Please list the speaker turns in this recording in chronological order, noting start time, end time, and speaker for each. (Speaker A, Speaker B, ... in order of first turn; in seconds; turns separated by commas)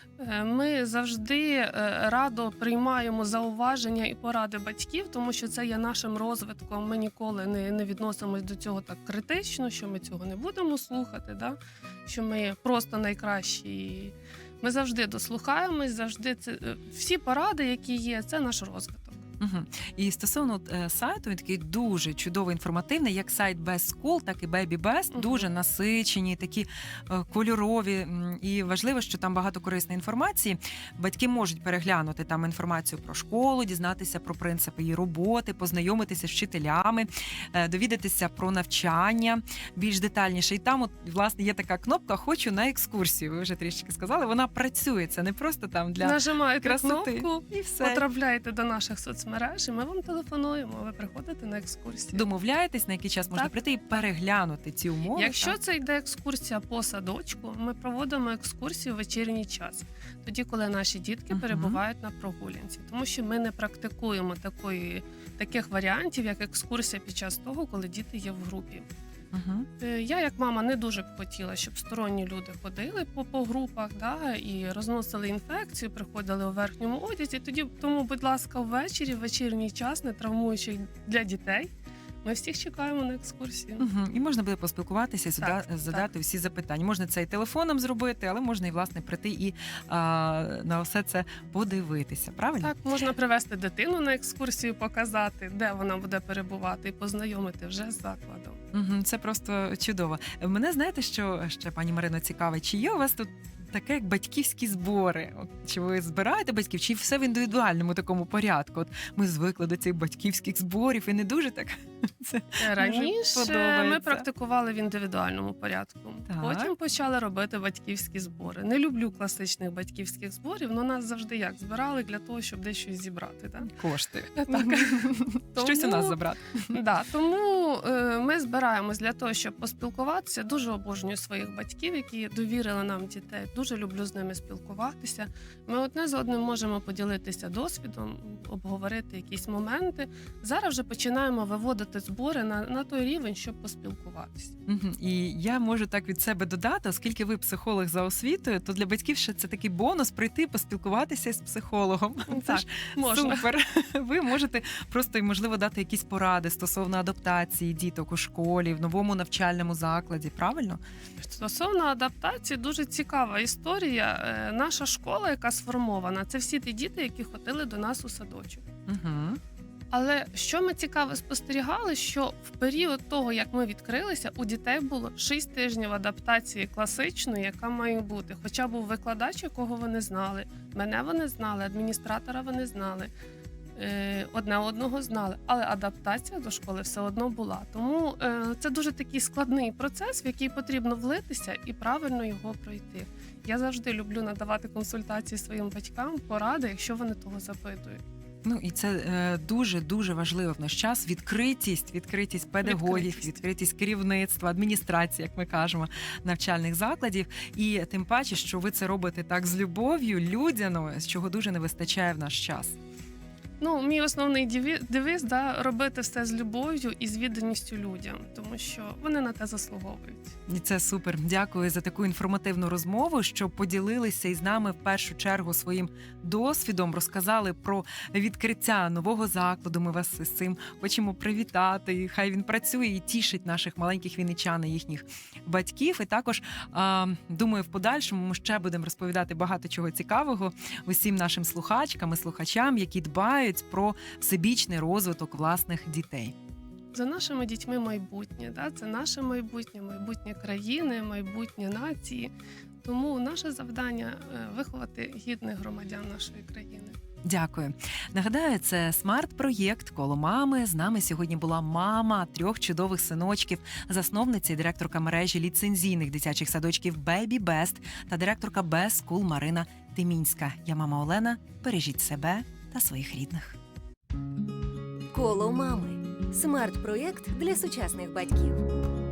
Speaker A: 0.2-19.2, Speaker B: 19.4-48.0, Speaker A: 25.1-25.5, Speaker A: 46.0-52.2, Speaker B: 52.1-55.6, Speaker A: 55.1-68.9, Speaker B: 61.3-61.8, Speaker B: 69.3-69.7, Speaker A: 69.8-81.7, Speaker A: 82.2-83.9, Speaker B: 83.8-92.7, Speaker A: 85.4-86.1, Speaker A: 92.6-98.6, Speaker B: 98.7-114.3, Speaker A: 112.6-123.7, Speaker B: 116.3-116.7, Speaker B: 123.7-126.8, Speaker A: 124.3-126.2, Speaker A: 126.7-144.6, Speaker B: 144.7-160.8, Speaker A: 152.3-153.4, Speaker A: 161.2-168.7, Speaker B: 168.9-169.4, Speaker A: 169.9-183.1, Speaker A: 183.8-198.0, Speaker B: 198.4-212.8, Speaker A: 202.6-203.3, Speaker A: 213.6-220.3, Speaker B: 220.5-246.3, Speaker A: 246.9-252.3, Speaker A: 252.8-257.0, Speaker B: 257.2-273.6, Speaker C: 275.1-278.7